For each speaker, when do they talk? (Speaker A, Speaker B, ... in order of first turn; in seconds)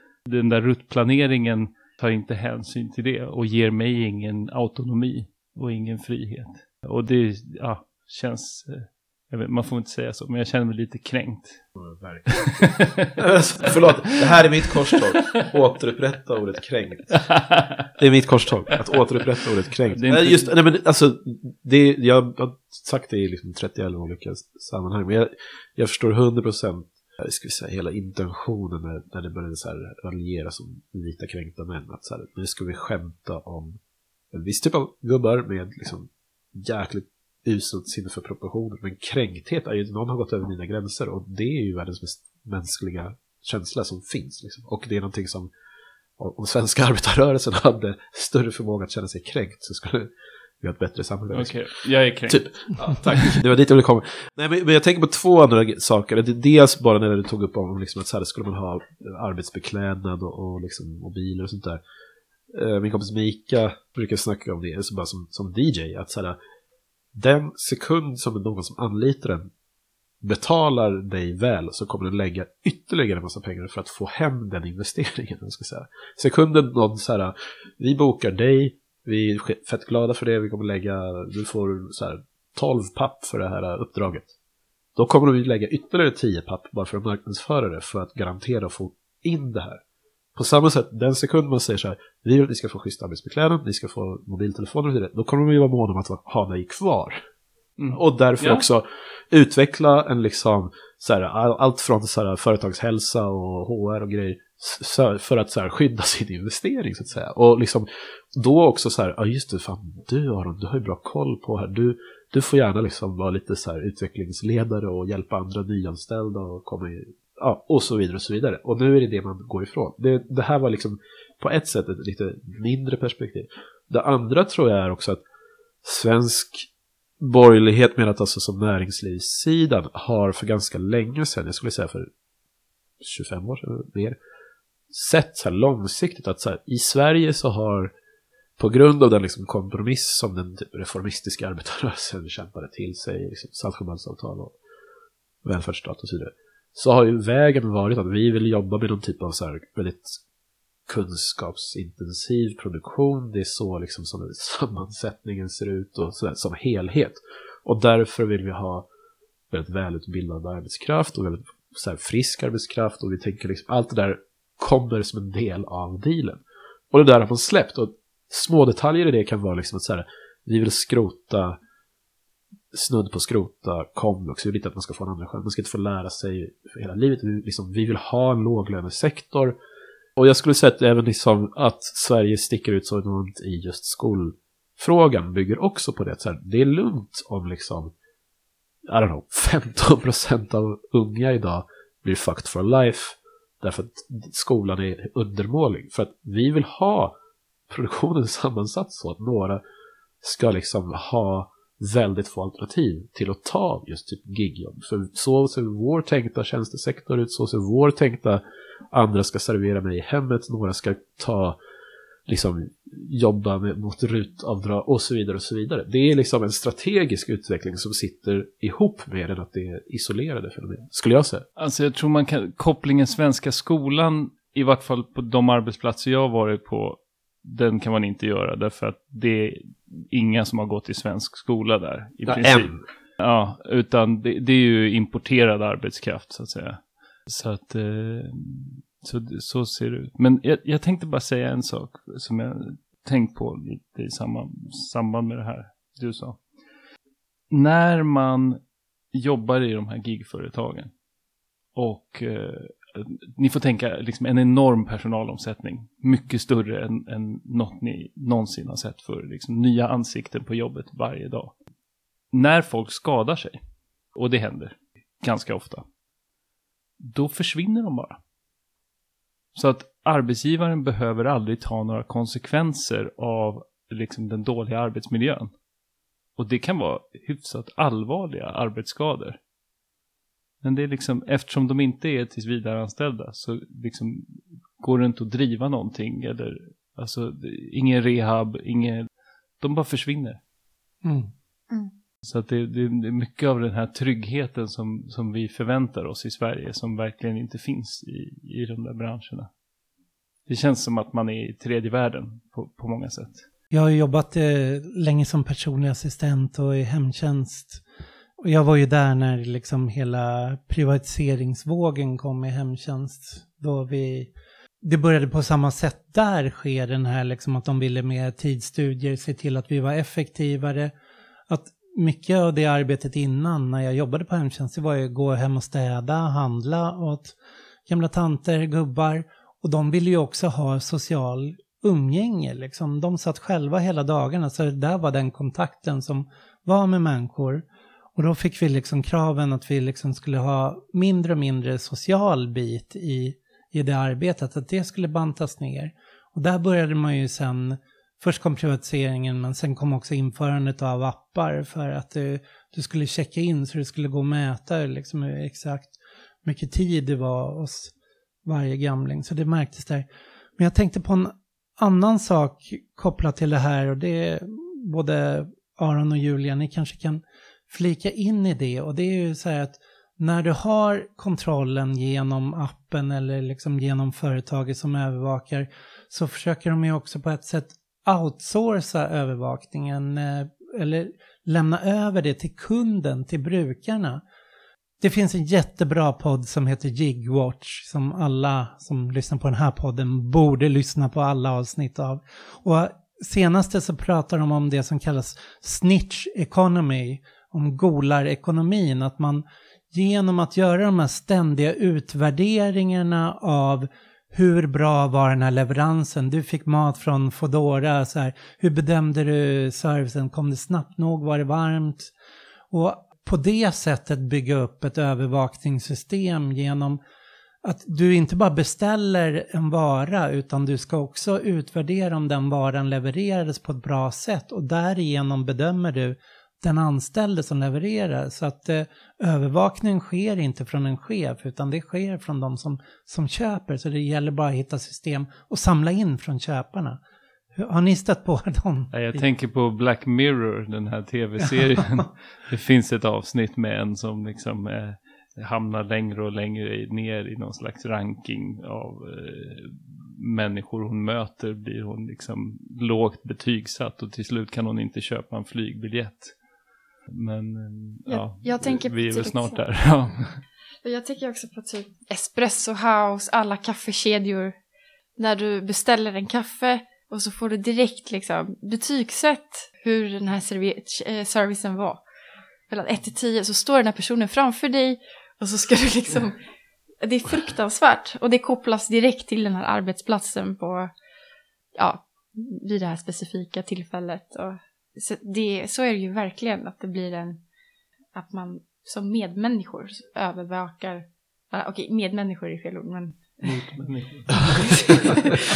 Speaker A: 0.3-11.6, 12.3-13.1, 14.8-15.3, 17.1-17.9, 19.9-20.5, 51.3-52.4, 97.8-98.6, 221.6-246.4, 247.5-248.6, 249.1-250.9, 251.7-261.5, 262.3-263.6, 264.1-265.8, 267.0-268.2, 269.5-275.5, 276.4-279.4, 280.6-289.1, 289.6-290.4, 292.2-299.5, 300.5-303.4, 438.9-456.3, 457.1-460.4, 493.4-495.4
Speaker B: 11.8-17.4, 18.0-33.8, 34.3-45.5, 46.2-50.1, 50.6-51.5, 52.3-61.8, 62.5-66.4, 67.1-69.5, 70.2-84.3, 85.0-89.8, 90.3-97.2, 97.9-125.2, 125.8-126.7, 127.2-132.1, 133.0-134.2, 134.9-137.9, 138.6-144.5, 145.4-150.2, 150.9-158.8, 159.5-171.6, 172.7-179.6, 180.2-187.9, 188.9-197.1, 197.7-199.6, 200.2-211.6, 212.3-221.4, 232.3-232.8, 494.3-494.8
Speaker C: 291.0-291.3, 303.7-307.8, 308.4-320.9, 321.5-327.3, 327.9-337.6, 338.1-357.9, 358.4-360.1, 360.6-384.2, 385.0-412.1, 412.7-417.0, 417.6-437.0, 437.5-439.2, 441.6-442.0
Speaker D: 458.1-459.6, 460.8-464.6, 465.2-472.0, 472.7-476.4, 477.0-480.9, 481.8-487.4, 488.1-493.6, 494.5-495.4